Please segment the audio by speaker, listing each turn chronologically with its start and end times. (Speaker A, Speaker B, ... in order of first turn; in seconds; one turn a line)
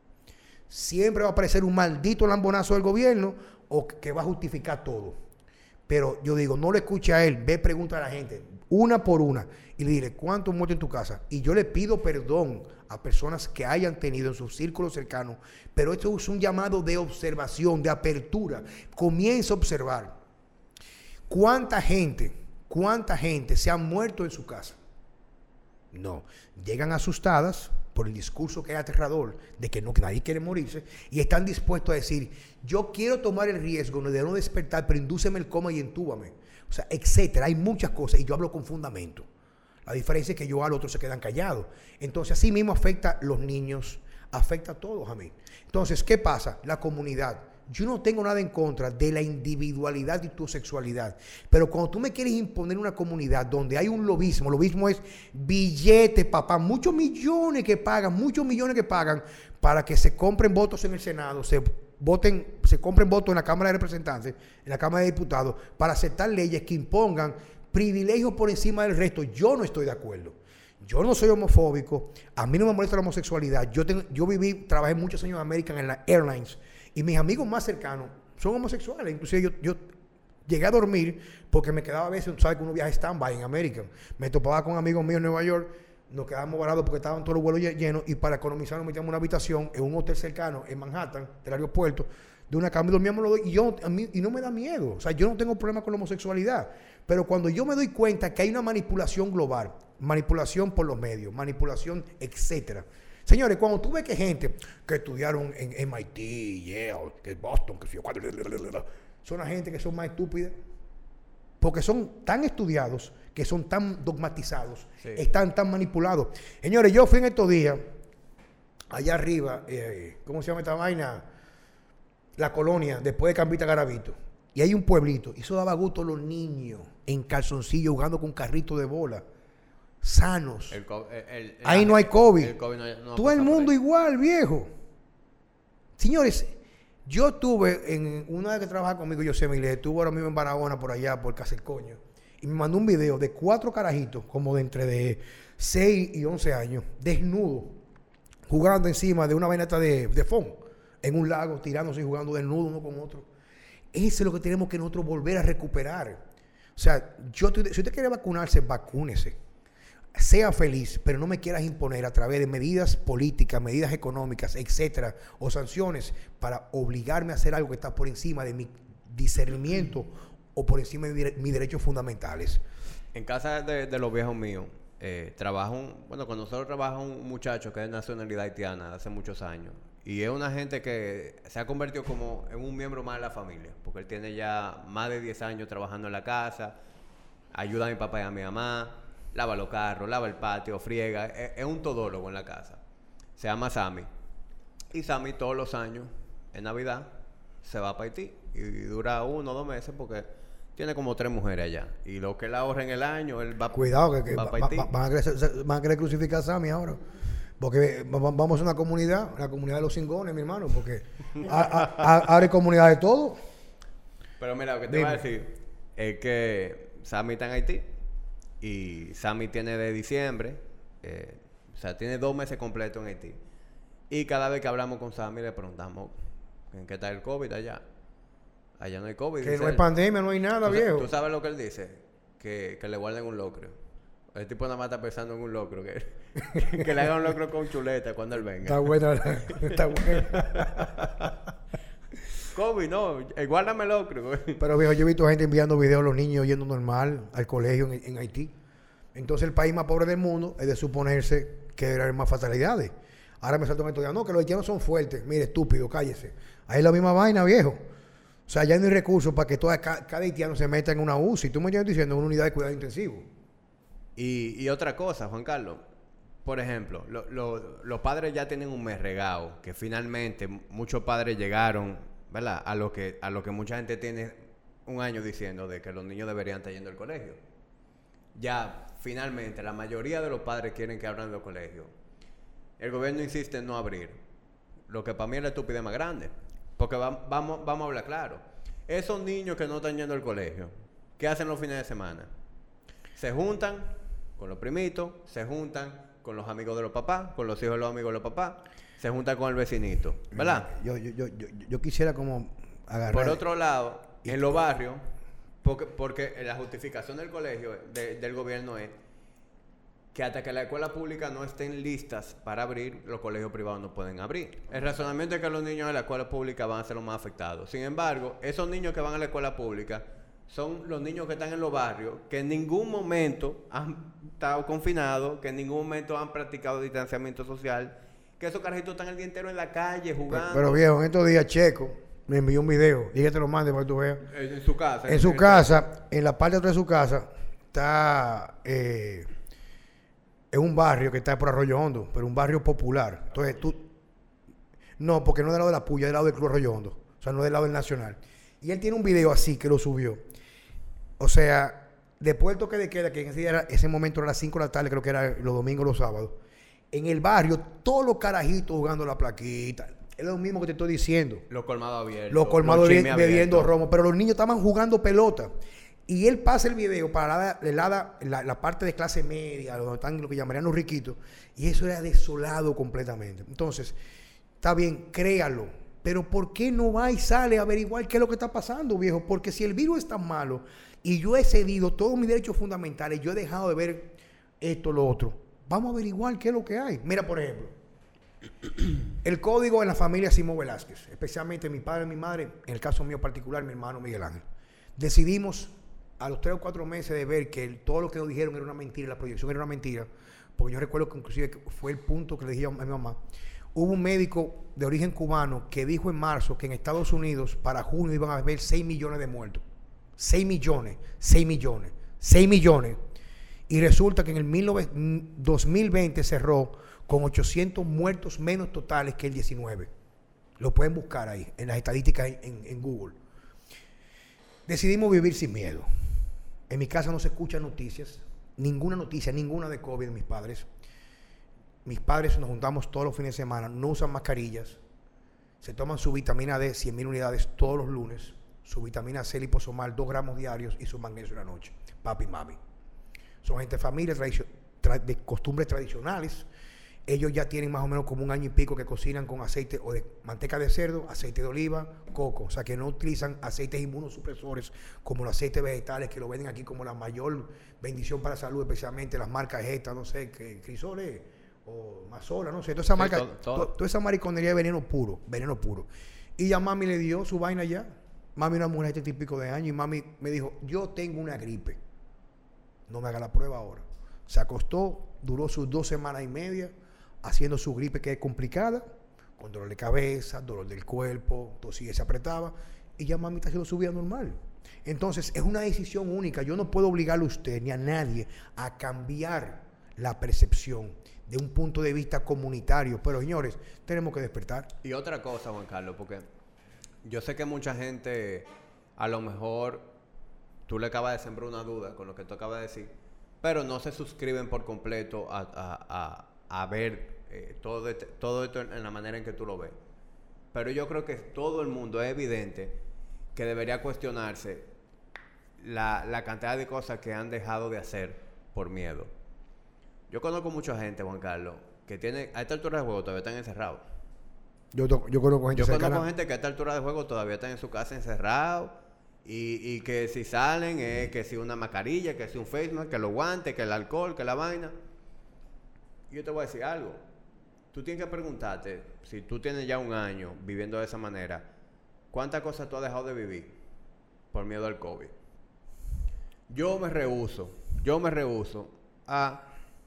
Speaker A: 0.7-5.2
Speaker A: 5.9-20.2
Speaker A: 21.3-24.8
Speaker A: 25.9-39.3
Speaker A: 39.9-79.8
Speaker A: 80.5-110.5
Speaker A: 111.6-117.8
Speaker A: 118.9-121.3
Speaker A: 122.4-129.2
Speaker A: 130.0-130.8
Speaker B: 130.7-133.8
Speaker A: 131.7-132.6
Speaker A: 133.2-134.7
Speaker A: 136.0-136.6
Speaker A: 137.1-147.8
Speaker A: 148.5-153.3
Speaker A: 153.9-156.2
Speaker A: 156.8-159.4
Speaker A: 160.2-172.6
Speaker B: 173.1-186.8
Speaker B: 187.5-192.8
Speaker B: 193.4-194.1
Speaker B: 194.9-204.9
Speaker A: 203.7-207.0
Speaker A: 207.6-213.4
Speaker B: 214.4-217.9
Speaker A: 214.9-215.2
Speaker B: 218.6-223.4
Speaker B: 224.1-226.2
Speaker B: 226.7-227.8
Speaker B: 228.8-229.8
Speaker A: 229.4-231.1
Speaker B: 230.7-233.8
Speaker B: 234.3-241.3
Speaker A: 236.5-236.9
Speaker A: 238.7-241.3
Speaker B: 242.4-244.6
Speaker A: 244.6-248.5
Speaker A: 249.2-257.8
Speaker A: 258.5-263.3
Speaker B: 264.2-265.8
Speaker B: 266.4-277.4
Speaker B: 278.4-281.9
Speaker B: 282.8-284.2
Speaker B: 284.9-292.3
Speaker B: 293.2-300.7
Speaker A: 300.3-303.4
Speaker B: 303.1-305.0
Speaker A: 304.2-304.6
Speaker B: 305.6-309.0
Speaker B: 310.1-330.8
Speaker A: 330.3-334.2
Speaker B: 334.2-335.9
Speaker A: 335.1-339.3
Speaker A: 340.5-343.9
Speaker A: 345.0-350.2
Speaker A: 351.2-356.4
Speaker A: 356.9-361.4
Speaker B: 361.5-363.7
Speaker A: 362.3-365.5
Speaker A: 366.1-374.0
Speaker A: 374.6-387.7
Speaker A: 389.2-394.4
Speaker A: 395.0-403.2
Speaker A: 403.8-409.6
Speaker A: 410.2-413.0
Speaker A: 413.7-419.9
Speaker A: 420.6-423.2
Speaker A: 424.7-425.9
Speaker A: 426.7-430.7
Speaker A: 431.9-434.8
Speaker A: 435.6-442.6
Speaker A: 443.4-446.5
Speaker A: 447.1-471.8
Speaker B: 462.9-463.7
Speaker A: 472.9-476.7
Speaker A: 477.2-478.9
Speaker A: 479.4-494.7
Speaker B: 494.8-496.2
Speaker B: 497.0-499.9
Speaker B: 500.7-502.9
Speaker B: 503.4-509.8
Speaker B: 510.5-512.8
Speaker B: 513.4-514.7
Speaker B: 515.6-519.1
Speaker B: 520.1-523.8
Speaker A: 524.7-526.1
Speaker B: 525.5-534.7
Speaker B: 536.1-537.0
Speaker B: 537.7-541.5
Speaker B: 542.1-543.6
Speaker B: 544.3-545.1
Speaker B: 546.5-549.5